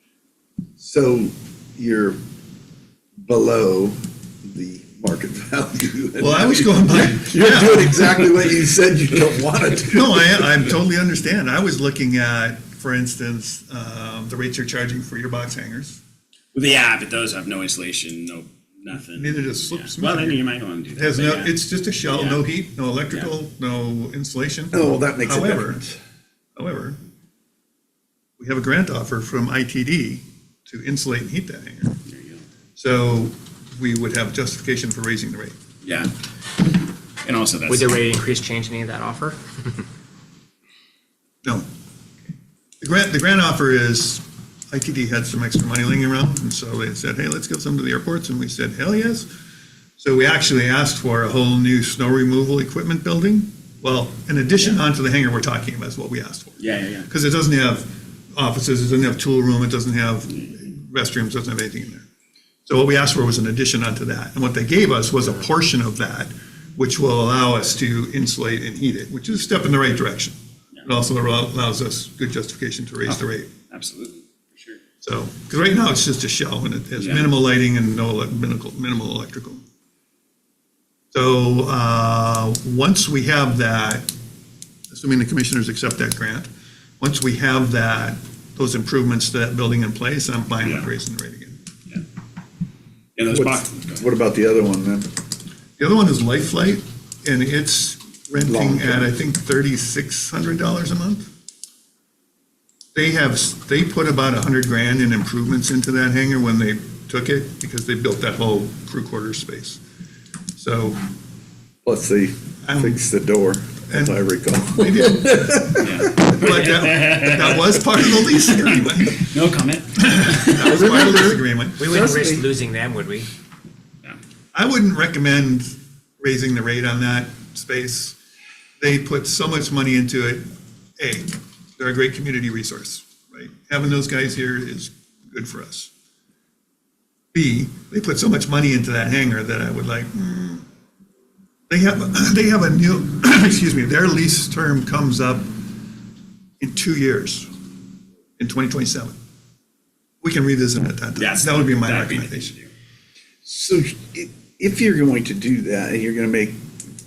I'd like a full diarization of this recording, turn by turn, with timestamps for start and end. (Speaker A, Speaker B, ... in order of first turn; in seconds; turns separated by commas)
Speaker A: 0.8-2.2, Speaker A: 3.2-10.3, Speaker B: 6.2-8.1, Speaker B: 9.9-16.0, Speaker C: 16.5-22.4, Speaker B: 18.9-25.8, Speaker A: 24.7-26.0, Speaker B: 26.6-27.0, Speaker B: 28.4-32.0, Speaker C: 32.1-32.4, Speaker B: 32.8-35.5, Speaker C: 35.8-36.1, Speaker C: 37.2-38.0, Speaker D: 37.7-39.4, Speaker B: 42.8-49.3, Speaker B: 50.0-62.0, Speaker C: 56.6-57.1, Speaker B: 62.6-73.5, Speaker C: 73.0-74.8, Speaker B: 75.0-79.6, Speaker C: 77.0-77.3, Speaker B: 81.1-84.1, Speaker B: 84.9-86.5, Speaker B: 87.0-91.6, Speaker C: 90.6-90.9, Speaker C: 93.2-94.1, Speaker A: 93.3-95.1, Speaker B: 95.8-101.3, Speaker A: 98.5-99.2, Speaker B: 102.9-109.8, Speaker B: 110.6-111.0, Speaker A: 111.8-116.3, Speaker B: 112.6-113.0, Speaker B: 113.9-114.2, Speaker B: 114.7-119.2, Speaker C: 115.8-120.8, Speaker B: 120.0-121.9, Speaker A: 120.7-122.5, Speaker D: 121.8-123.3, Speaker B: 124.5-128.2, Speaker B: 128.8-130.4, Speaker B: 131.0-135.9, Speaker B: 137.3-140.6, Speaker B: 141.7-145.6, Speaker B: 146.6-147.5, Speaker B: 148.4-149.1, Speaker B: 150.2-152.5, Speaker C: 151.2-152.7, Speaker A: 153.4-156.6